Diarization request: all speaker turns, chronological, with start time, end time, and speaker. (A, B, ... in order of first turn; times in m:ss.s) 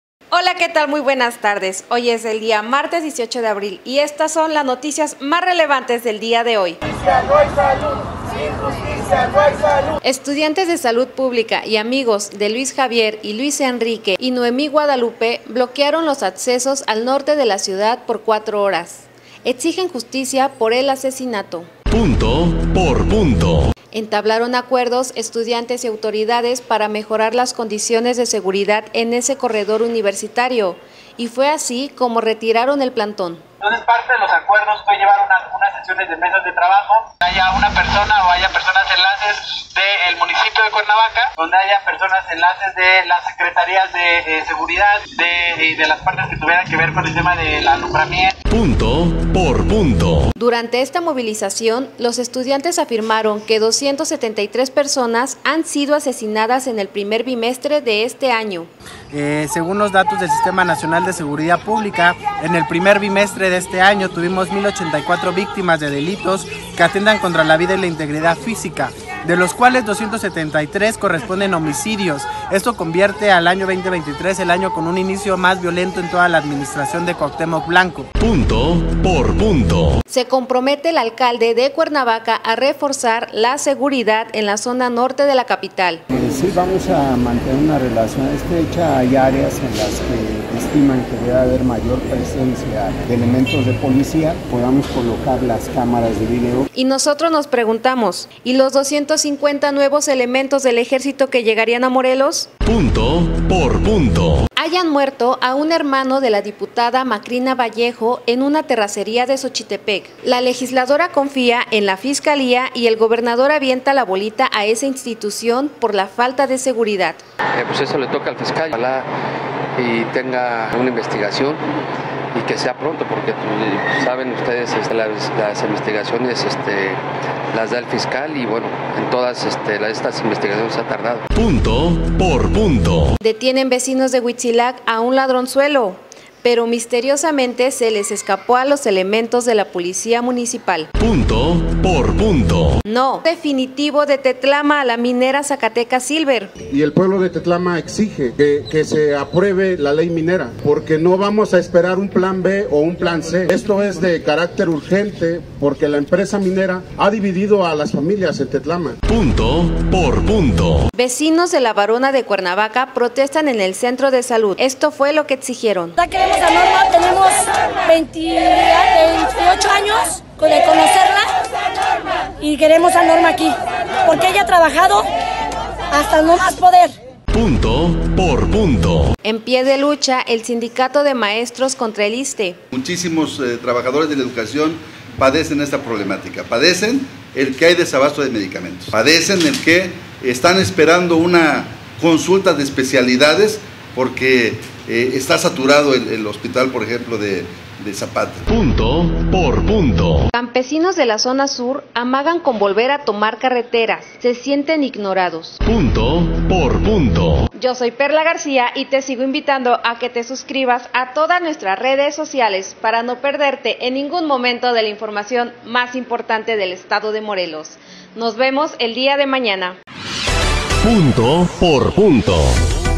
0:00.3-0:07.5 A
0:08.9-0:21.7 A
0:21.9-0:23.7 B
0:23.9-0:33.4 A
0:33.6-0:48.3 C
0:48.5-0:50.3 B
0:50.4-0:58.7 A
0:59.1-1:18.1 D
1:18.2-1:20.0 B
1:20.1-1:26.0 A
1:26.1-1:36.7 E
1:36.7-1:42.5 A
1:42.6-1:44.4 B
1:44.6-1:57.2 A
1:57.6-1:59.1 F
1:59.8-2:01.6 F
2:02.3-2:07.0 F
2:07.5-2:11.2 F
2:11.3-2:13.2 B
2:13.2-2:20.9 A
2:21.0-2:22.8 B
2:22.8-2:26.5 A
2:26.7-2:39.0 G
2:39.1-2:40.9 B
2:40.9-2:46.0 A
2:46.0-2:51.3 H
2:52.4-2:55.1 H
2:55.9-2:57.0 H
2:57.3-2:59.1 B
2:59.2-3:02.6 A
3:02.7-3:18.5 I
3:18.5-3:20.3 B
3:20.3-3:25.6 A
3:25.6-3:27.5 B
3:27.6-3:39.8 A
3:40.8-3:42.5 B